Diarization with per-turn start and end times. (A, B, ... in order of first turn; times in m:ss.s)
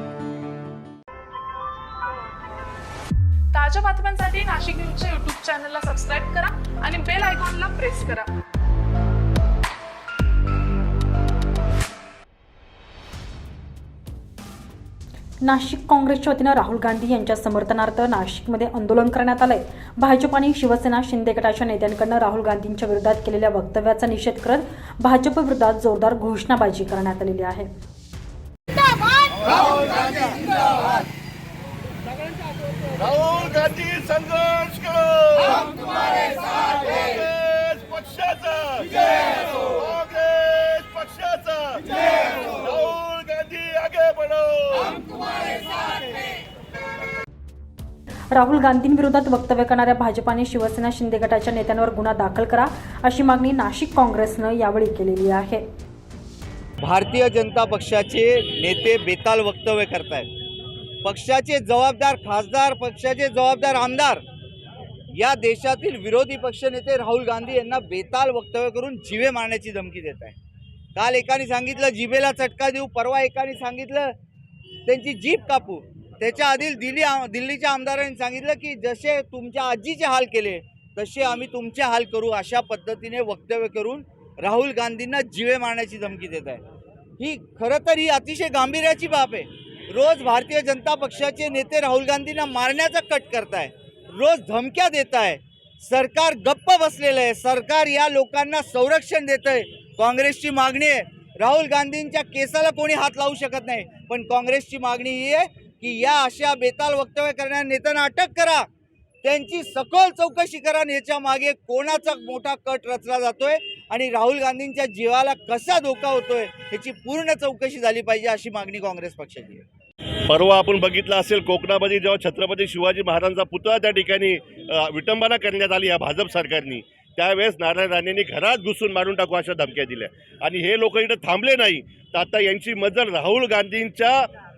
0:03.5-0:08.3 A
0:15.4-0:27.7 B
0:33.0-0:45.1 C
0:48.3-0:55.7 B
0:56.8-1:00.3 D
1:01.0-1:04.2 D
1:05.1-1:10.4 D
1:11.0-1:14.2 D
1:14.9-1:26.6 D
1:27.2-1:48.7 D
1:49.2-1:59.6 D
2:00.3-2:14.3 C